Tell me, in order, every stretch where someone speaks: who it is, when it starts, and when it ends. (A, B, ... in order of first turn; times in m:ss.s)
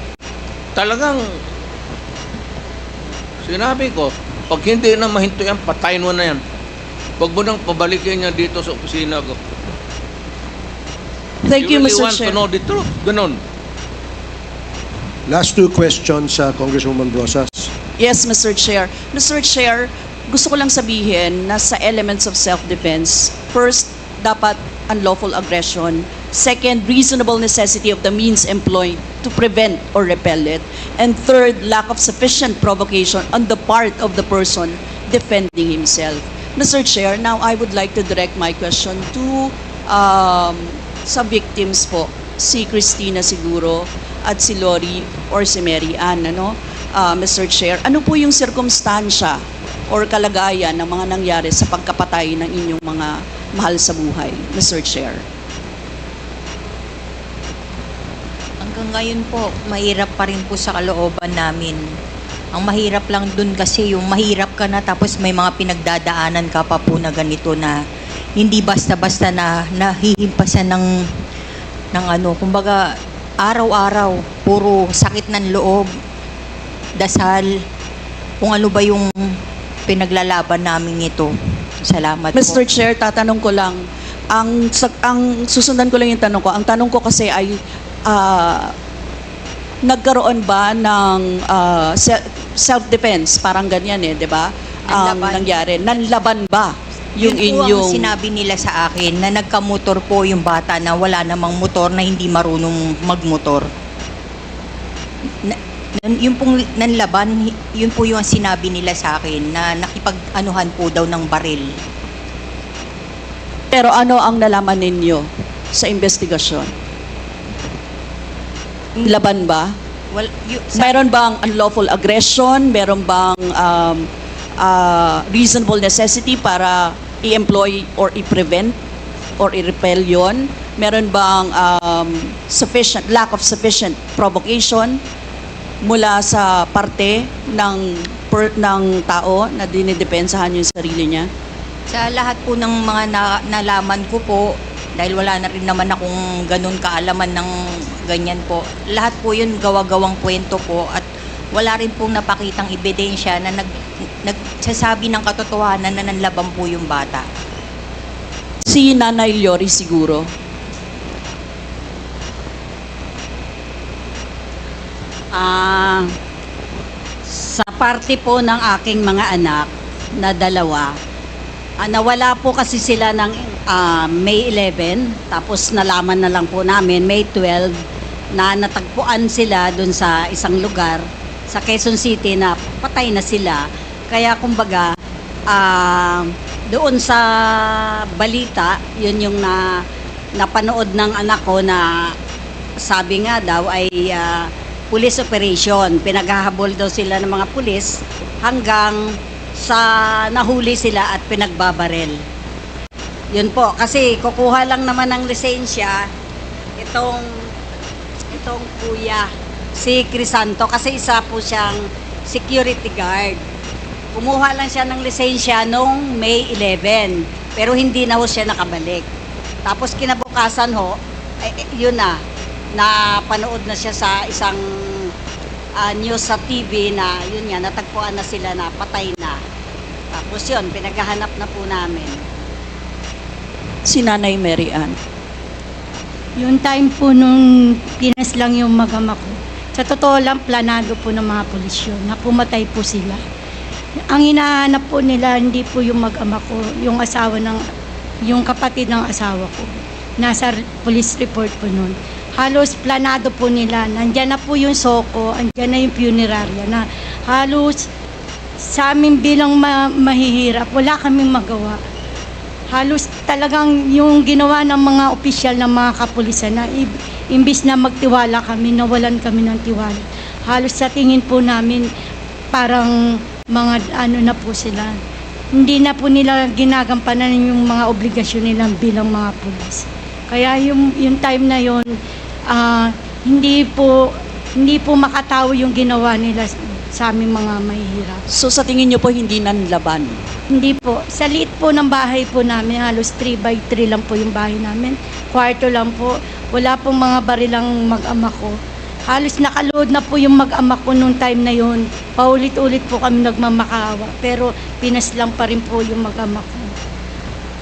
0:00.7-0:01.4 A
0:03.4-0:06.4 A
0:07.2-0:09.4 A
0:11.4-0:12.4 B
0:11.6-0:13.4 A
0:15.3-0:17.7 C
0:18.0-0:55.2 B
0:58.6-1:01.8 D
1:02.5-1:07.7 D
1:08.4-1:10.9 D
1:11.9-1:12.8 D
1:13.4-1:15.9 D
1:17.0-1:17.5 D
1:18.4-1:19.1 D
1:19.9-1:21.3 D
1:21.8-1:22.6 D
1:22.3-1:28.7 B
1:29.8-1:38.1 B
1:34.9-1:35.5 D
1:37.2-1:43.7 D
1:45.4-1:51.7 D
1:53.7-1:56.7 B
1:59.0-1:59.2 D
1:59.0-1:59.7 B
2:00.1-2:01.1 D
2:00.7-2:08.8 B
2:09.4-2:15.0 B
2:15.8-2:21.3 B
2:21.9-2:27.5 D
2:28.1-2:31.0 D
2:31.6-2:33.7 D
2:34.2-2:37.2 D
2:38.6-2:40.3 B
2:45.3-2:46.1 E
2:47.3-2:50.9 E
2:51.8-2:57.7 E
2:58.4-3:04.9 E
3:05.5-3:09.8 E
3:10.4-3:12.1 E
3:12.8-3:22.2 E
3:23.3-3:26.1 E
3:26.8-3:27.3 E
3:28.3-3:33.4 E
3:34.1-3:39.0 E
3:39.6-3:42.2 E
3:42.8-3:45.1 E
3:45.8-3:49.4 E
3:50.1-3:52.2 E
3:53.8-3:55.0 B
3:56.4-4:03.2 F
4:04.1-4:07.6 F
4:08.2-4:17.8 F
4:18.7-4:21.8 F
4:22.7-4:31.9 F
4:32.5-4:33.0 F
4:33.5-4:35.0 F
4:35.5-4:41.9 F
4:42.5-4:48.2 F
4:48.3-4:50.2 B
4:50.5-4:58.5 F
4:59.1-5:06.7 F